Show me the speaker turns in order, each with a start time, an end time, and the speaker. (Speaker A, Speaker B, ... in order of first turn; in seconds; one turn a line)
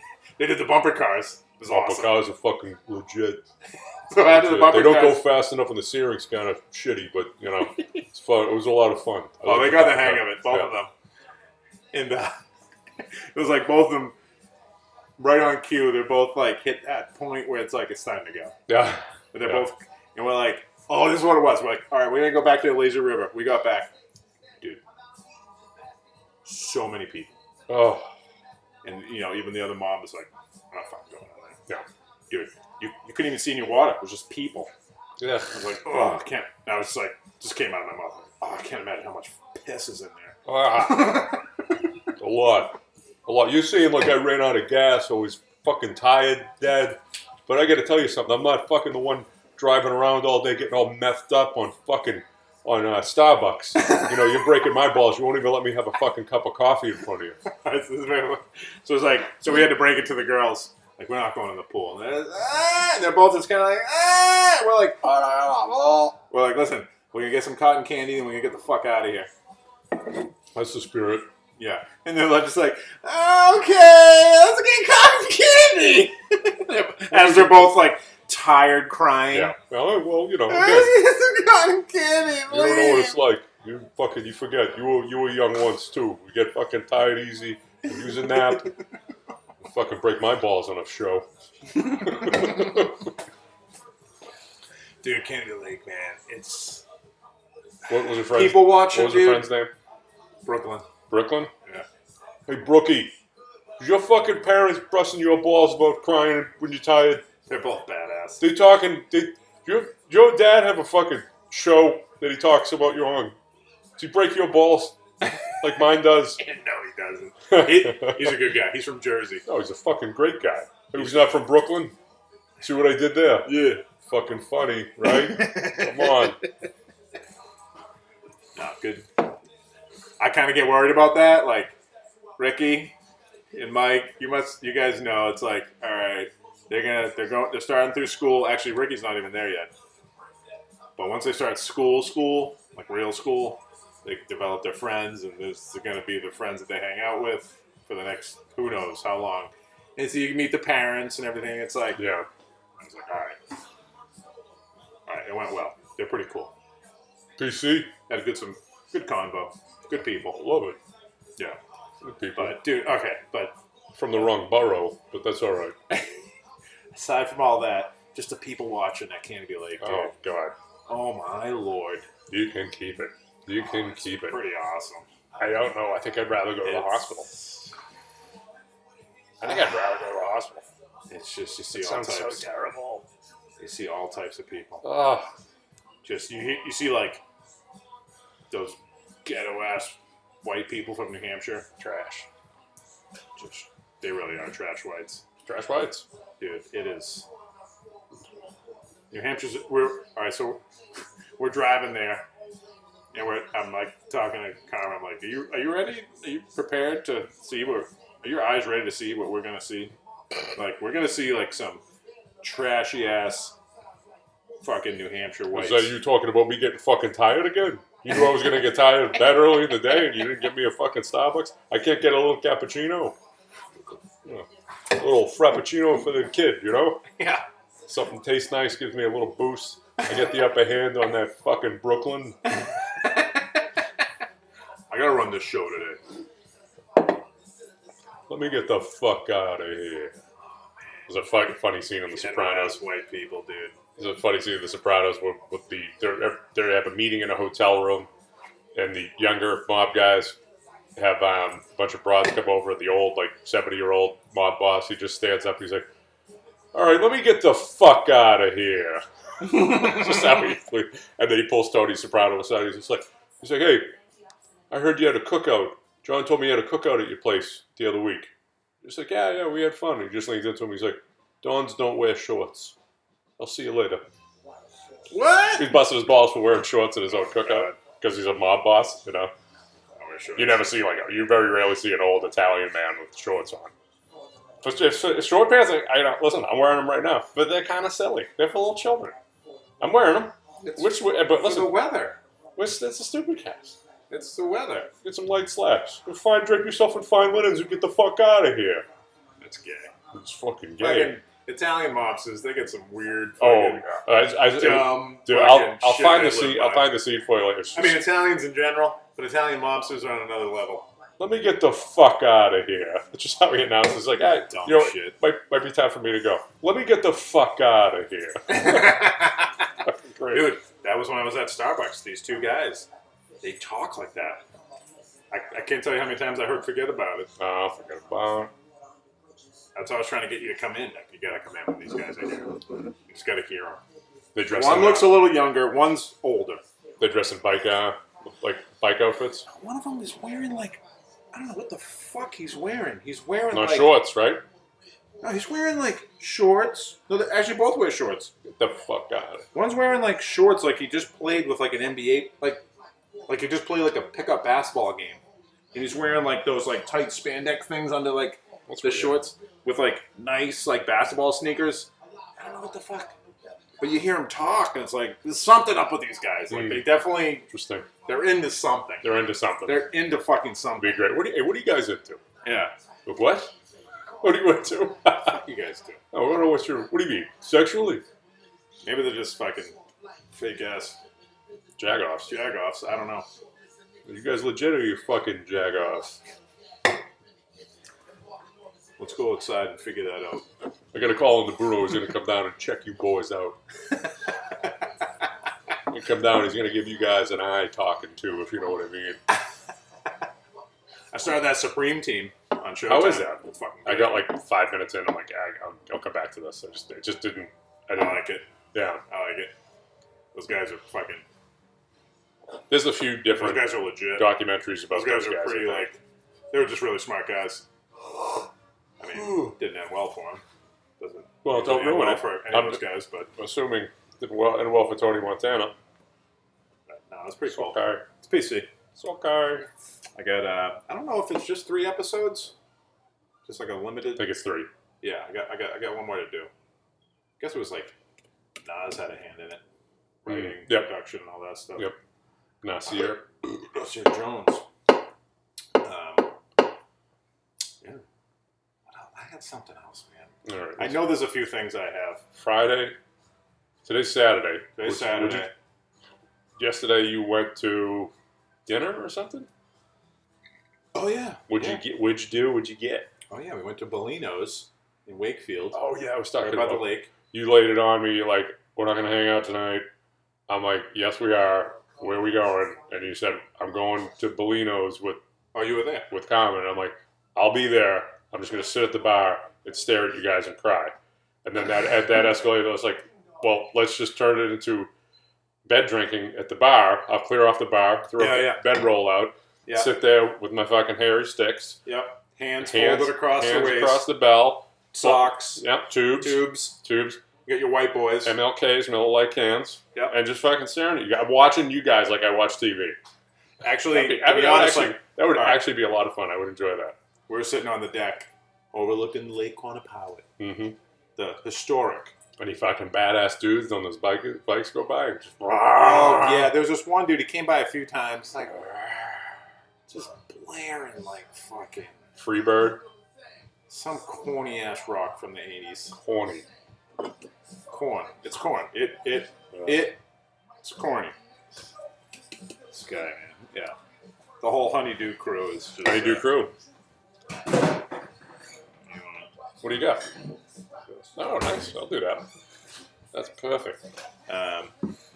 Speaker A: 0.4-2.2
Speaker B: 1.7-3.4
Speaker A: 4.1-5.3
Speaker B: 4.2-10.7
Speaker A: 9.4-10.9
Speaker A: 11.9-12.3
Speaker A: 13.3-14.2
Speaker A: 15.2-18.6
Speaker B: 18.7-19.6
Speaker A: 19.3-23.9
Speaker A: 26.4-27.4
Speaker B: 27.7-28.1
Speaker A: 28.8-31.6
Speaker A: 32.3-34.7
Speaker B: 35.2-36.1
Speaker A: 35.5-40.4
Speaker B: 40.5-41.3
Speaker A: 40.9-41.3
Speaker B: 42.2-57.4
Speaker A: 57.5-69.3
Speaker B: 70.5-71.3
Speaker A: 71.6-79.5
Speaker B: 77.1-77.8
Speaker B: 79.3-81.0
Speaker A: 80.5-83.2
Speaker B: 82.5-88.8
Speaker B: 89.7-91.3
Speaker B: 92.0-92.9
Speaker A: 95.0-96.8
Speaker B: 97.9-99.7
Speaker A: 98.3-99.5
Speaker A: 100.5-100.9
Speaker B: 101.1-101.5
Speaker B: 102.5-103.1
Speaker B: 103.8-107.2
Speaker A: 107.5-108.4
Speaker B: 108.4-113.3
Speaker B: 114.0-115.0
Speaker B: 115.5-116.4
Speaker A: 116.4-119.4
Speaker B: 117.5-118.5
Speaker B: 119.5-122.0
Speaker A: 120.9-121.3
Speaker B: 122.6-126.4
Speaker A: 123.5-123.8
Speaker A: 125.3-125.9
Speaker A: 128.6-129.3
Speaker A: 130.2-131.8
Speaker A: 132.4-132.9
Speaker A: 133.5-139.7
Speaker A: 141.0-152.0
Speaker B: 152.0-152.3
Speaker A: 152.8-153.4
Speaker A: 155.1-156.5
Speaker B: 157.4-157.9
Speaker A: 158.1-160.4
Speaker B: 160.3-160.8
Speaker B: 162.0-162.6
Speaker A: 162.4-163.6
Speaker B: 163.9-165.8
Speaker A: 165.9-166.2
Speaker A: 166.9-170.1
Speaker B: 169.8-170.6
Speaker A: 170.9-172.1
Speaker B: 172.3-174.4
Speaker A: 173.6-175.1
Speaker B: 175.4-177.3
Speaker A: 176.6-177.6
Speaker B: 179.4-180.7
Speaker A: 181.1-182.5
Speaker B: 181.7-183.1
Speaker A: 183.6-184.9
Speaker B: 184.8-185.3
Speaker A: 186.0-187.2
Speaker A: 188.5-191.7
Speaker B: 191.8-192.3
Speaker A: 193.4-195.2
Speaker B: 195.4-196.1
Speaker A: 196.4-197.3
Speaker A: 199.1-200.6
Speaker A: 201.4-202.3
Speaker A: 203.1-209.9
Speaker A: 210.6-211.8
Speaker A: 212.4-213.6
Speaker A: 214.6-215.9
Speaker B: 215.5-223.2
Speaker B: 224.2-227.0
Speaker A: 227.2-227.4
Speaker B: 227.9-232.6
Speaker A: 234.9-236.0
Speaker B: 238.3-240.2
Speaker B: 241.1-242.8
Speaker A: 242.1-243.7
Speaker B: 244.0-248.1
Speaker B: 248.8-250.4
Speaker B: 251.0-255.9
Speaker B: 256.7-263.9
Speaker B: 264.7-268.3
Speaker B: 268.8-272.8
Speaker B: 273.4-274.1
Speaker A: 275.1-275.8
Speaker B: 275.6-279.3
Speaker A: 277.4-277.8
Speaker A: 280.0-280.6
Speaker B: 280.4-283.7
Speaker B: 284.6-289.2
Speaker B: 289.8-291.9
Speaker A: 290.6-292.2
Speaker B: 292.6-293.8
Speaker A: 294.1-294.9
Speaker B: 295.0-298.9
Speaker A: 299.4-299.9
Speaker B: 300.1-301.2
Speaker A: 300.8-304.0
Speaker B: 303.4-308.1
Speaker A: 304.5-306.9
Speaker A: 307.7-310.9
Speaker B: 311.2-319.0
Speaker A: 314.5-315.2
Speaker A: 318.5-319.5
Speaker B: 319.9-320.5
Speaker A: 320.3-322.9
Speaker A: 323.4-324.4
Speaker A: 325.3-327.3
Speaker B: 327.4-328.5
Speaker A: 329.8-333.8
Speaker B: 334.3-335.3
Speaker A: 334.5-336.6
Speaker B: 337.0-339.5
Speaker A: 339.5-340.8
Speaker A: 341.3-344.0
Speaker B: 343.5-344.4
Speaker A: 345.2-348.3
Speaker B: 348.5-349.5
Speaker A: 349.5-352.6
Speaker A: 353.3-355.2
Speaker A: 355.7-363.1
Speaker B: 358.7-359.2
Speaker A: 363.8-367.5
Speaker B: 366.5-367.9
Speaker A: 368.1-369.1
Speaker B: 369.0-370.0
Speaker A: 369.6-371.0
Speaker B: 370.8-372.2
Speaker A: 372.4-372.7
Speaker B: 373.1-373.5
Speaker B: 374.2-375.4
Speaker A: 375.2-376.0
Speaker B: 376.1-378.0
Speaker A: 378.9-379.8
Speaker A: 380.3-381.0
Speaker B: 381.8-382.3
Speaker A: 382.3-383.3
Speaker B: 384.1-386.2
Speaker A: 389.0-390.5
Speaker B: 390.9-393.6
Speaker B: 395.9-399.2
Speaker A: 401.1-404.2
Speaker B: 402.9-409.0
Speaker A: 407.9-408.5
Speaker A: 409.1-409.5
Speaker A: 410.3-411.2
Speaker B: 412.7-415.9
Speaker A: 413.3-414.4
Speaker A: 414.9-416.0
Speaker A: 416.5-417.6
Speaker A: 419.0-420.4
Speaker B: 419.2-419.5
Speaker A: 421.0-423.3
Speaker B: 421.4-425.8
Speaker A: 426.9-428.7
Speaker B: 427.5-428.1
Speaker B: 429.0-429.7
Speaker A: 430.2-432.5
Speaker A: 433.5-434.3
Speaker B: 434.2-434.7
Speaker A: 435.0-436.5
Speaker A: 437.4-437.9
Speaker A: 438.6-439.6
Speaker A: 440.2-441.9
Speaker B: 440.3-440.9
Speaker B: 442.6-443.2
Speaker A: 442.9-444.7
Speaker A: 445.8-446.3
Speaker A: 448.9-452.2
Speaker B: 450.4-451.1
Speaker B: 452.4-453.0
Speaker B: 453.9-455.5
Speaker A: 454.8-455.5
Speaker B: 456.6-458.1
Speaker B: 458.7-459.5
Speaker A: 460.9-461.8
Speaker B: 461.5-463.1
Speaker A: 463.3-465.8
Speaker B: 465.7-469.9
Speaker A: 466.4-467.1
Speaker B: 470.5-475.2
Speaker A: 475.5-476.1
Speaker B: 476.1-484.9
Speaker B: 485.7-491.8
Speaker A: 488.2-488.6
Speaker A: 489.7-489.9
Speaker A: 491.9-494.1
Speaker B: 492.6-497.2
Speaker A: 494.9-496.8
Speaker A: 497.5-498.4
Speaker B: 498.2-503.0
Speaker A: 503.6-505.6
Speaker B: 503.9-507.0
Speaker A: 507.3-510.3
Speaker B: 510.4-510.8
Speaker A: 511.2-512.1
Speaker B: 512.4-516.5
Speaker A: 515.5-519.3
Speaker A: 519.9-522.0
Speaker B: 522.2-522.8
Speaker A: 523.7-526.0
Speaker B: 526.0-526.5
Speaker A: 527.7-530.0
Speaker B: 529.6-529.8
Speaker A: 530.6-531.2
Speaker A: 532.7-533.8
Speaker A: 534.4-536.3
Speaker B: 535.8-536.5
Speaker A: 538.9-539.3
Speaker B: 539.6-540.0
Speaker B: 541.2-542.2
Speaker B: 543.1-543.8
Speaker A: 544.3-544.7